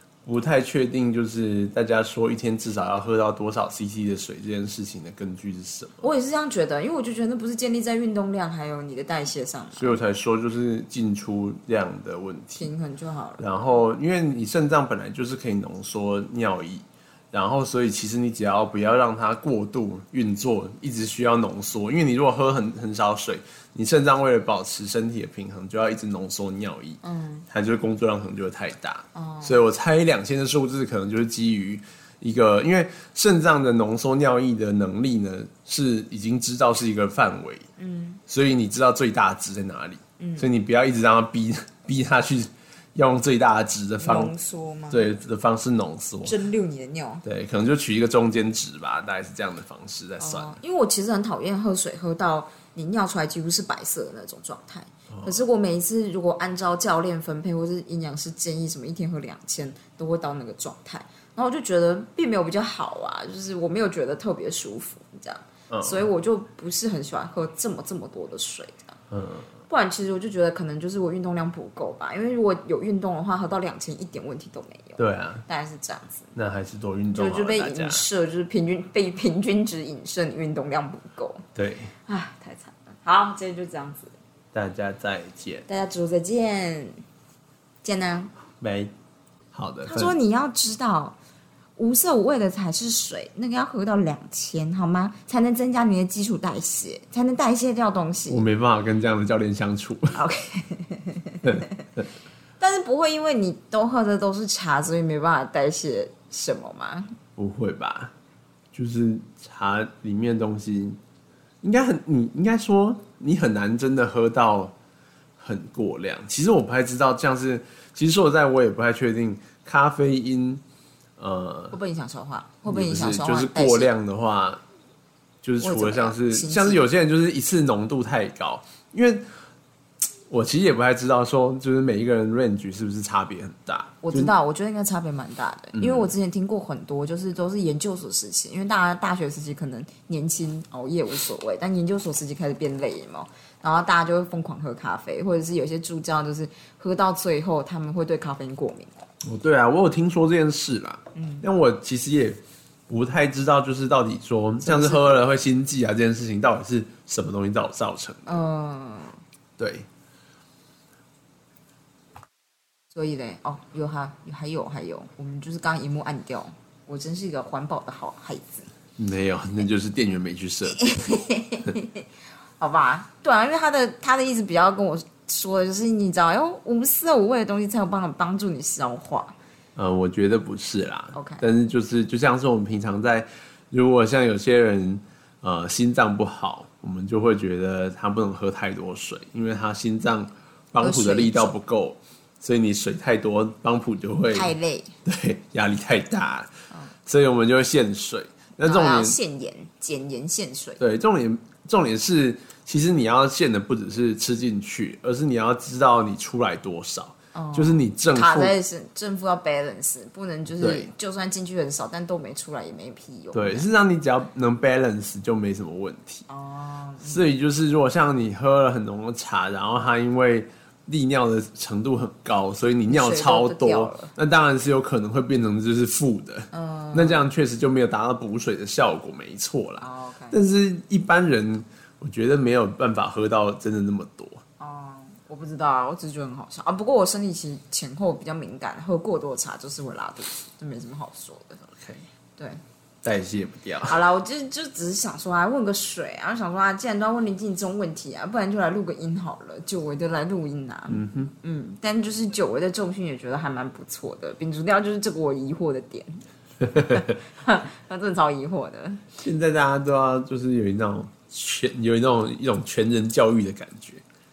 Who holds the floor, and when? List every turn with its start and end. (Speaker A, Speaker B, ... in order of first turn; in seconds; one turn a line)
Speaker A: 0.2-6.1
Speaker B: 6.0-10.0
Speaker A: 9.8-12.7
Speaker B: 12.6-13.8
Speaker A: 13.4-37.7
Speaker B: 27.0-27.5
Speaker B: 29.1-29.6
Speaker B: 37.8-38.2
Speaker A: 38.3-44.3
Speaker B: 40.2-40.5
Speaker B: 44.0-45.1
Speaker A: 44.9-46.4
Speaker B: 46.2-47.2
Speaker A: 47.2-50.6
Speaker B: 50.2-69.0
Speaker A: 65.7-66.1
Speaker A: 69.1-69.5
Speaker B: 69.7-76.3
Speaker A: 75.0-75.5
Speaker A: 76.3-78.0
Speaker B: 77.1-81.5
Speaker A: 81.5-81.9
Speaker B: 82.1-84.2
Speaker A: 84.5-85.7
Speaker B: 85.7-87.0
Speaker B: 87.8-88.3
Speaker A: 88.6-88.9
Speaker A: 89.5-90.2
Speaker B: 89.8-91.2
Speaker B: 91.8-98.4
Speaker A: 98.3-100.2
Speaker B: 100.2-101.9
Speaker B: 102.6-107.2
Speaker A: 107.4-108.1
Speaker A: 108.7-111.0
Speaker A: 111.6-114.7
Speaker A: 115.4-120.6
Speaker A: 121.2-121.8
Speaker B: 121.7-123.9
Speaker A: 122.7-124.6
Speaker A: 125.4-129.2
Speaker B: 125.6-126.8
Speaker A: 130.3-134.3
Speaker B: 134.0-148.9
Speaker A: 135.7-136.1
Speaker A: 149.2-158.4
Speaker B: 151.2-151.5
Speaker B: 154.6-155.2
Speaker B: 158.3-159.2
Speaker A: 159.6-159.9
Speaker B: 162.9-168.7
Speaker A: 169.0-170.9
Speaker B: 170.8-172.1
Speaker B: 172.6-179.3
Speaker A: 179.8-194.5
Speaker B: 181.1-181.4
Speaker B: 190.8-191.6
Speaker B: 194.3-194.9
Speaker A: 195.1-196.5
Speaker A: 197.1-199.2
Speaker B: 198.6-200.8
Speaker A: 200.8-208.6
Speaker B: 207.3-213.7
Speaker A: 210.6-210.9
Speaker A: 213.3-216.3
Speaker B: 216.3-217.3
Speaker A: 217.0-234.4
Speaker B: 222.9-224.1
Speaker B: 226.5-227.3
Speaker B: 229.8-230.4
Speaker B: 234.6-241.6
Speaker A: 241.8-242.1
Speaker A: 243.0-244.0
Speaker B: 243.9-256.2
Speaker A: 250.9-251.3
Speaker B: 256.7-259.1
Speaker A: 259.2-264.0